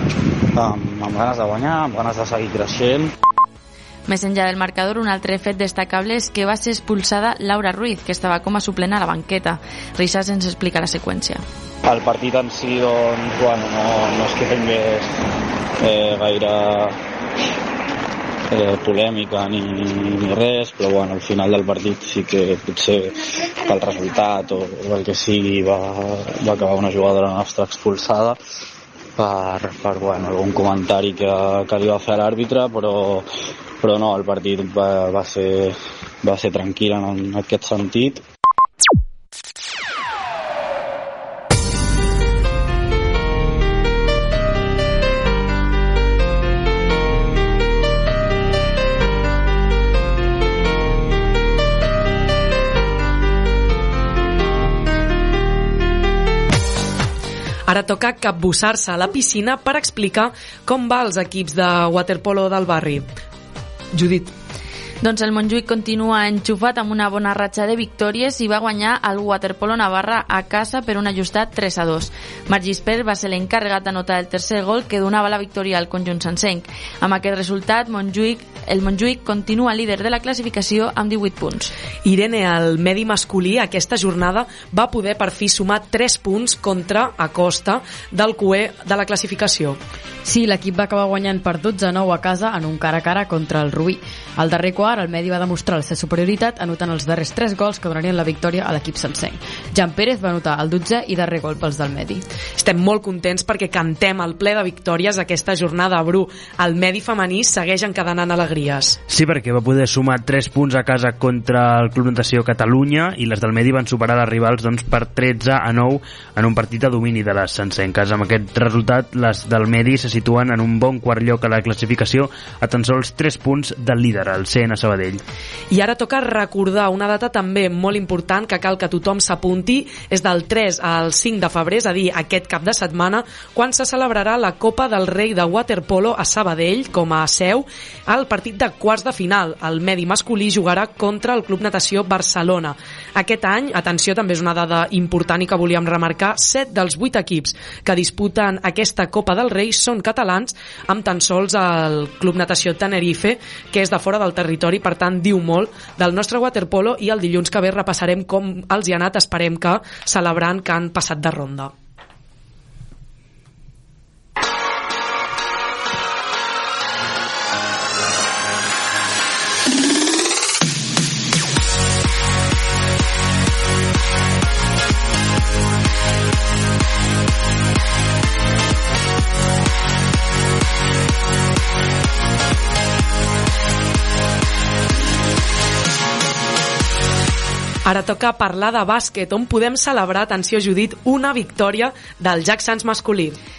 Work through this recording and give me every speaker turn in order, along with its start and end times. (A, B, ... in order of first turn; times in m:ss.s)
0:00.5-0:03.1 A
0:04.1-0:11.4 B
0:11.8-0:15.1 A
0:15.8-0:17.0 A
0:18.5-0:28.4 A
0:29.2-0:38.2 A
0:57.7-1:03.1 C
1:03.9-1:04.3 C
1:05.0-1:21.7 B
1:22.0-1:29.8 C
1:30.2-1:42.2 D
1:42.6-1:49.0 C
1:49.1-2:05.2 E
2:05.7-2:41.7 C
3:07.8-3:13.4 C